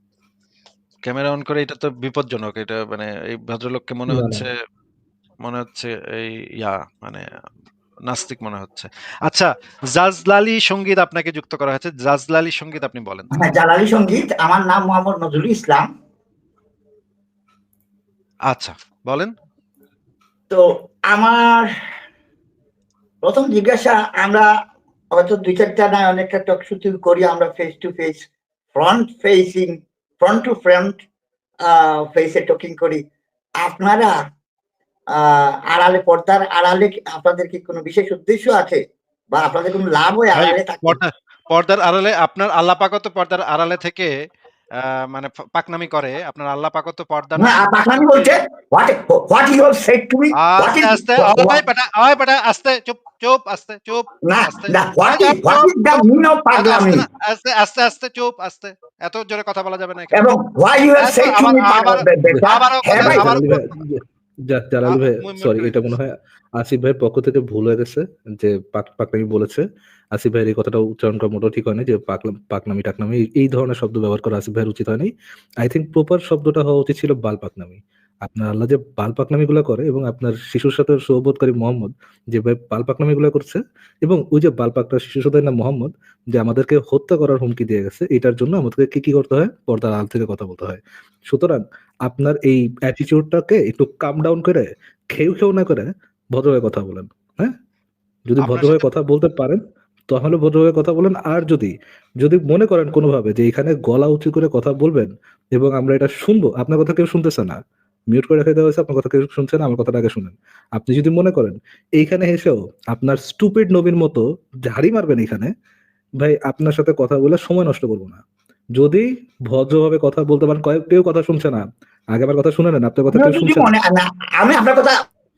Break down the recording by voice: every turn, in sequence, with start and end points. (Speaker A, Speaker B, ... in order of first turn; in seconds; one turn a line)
Speaker A: 1.1-4.5
Speaker B: 4.1-4.5
Speaker A: 5.4-7.2
Speaker A: 8.1-13.4
Speaker C: 13.3-15.9
Speaker A: 18.5-19.3
Speaker C: 20.5-21.7
Speaker C: 23.2-24.5
Speaker C: 25.1-31.0
Speaker C: 31.6-33.0
Speaker C: 33.6-34.2
Speaker C: 35.1-41.0
Speaker A: 40.3-44.1
Speaker A: 44.8-48.4
Speaker C: 47.4-51.6
Speaker A: 50.4-56.0
Speaker C: 54.2-57.0
Speaker A: 56.5-60.3
Speaker C: 60.1-63.4
Speaker A: 61.0-63.8
Speaker B: 62.3-75.1
Speaker A: 64.9-65.9
Speaker B: 75.6-97.5
Speaker B: 98.3-107.6
Speaker A: 98.4-98.8
Speaker B: 108.1-115.5
Speaker B: 116.2-118.2
Speaker B: 118.8-123.7
Speaker C: 123.1-125.0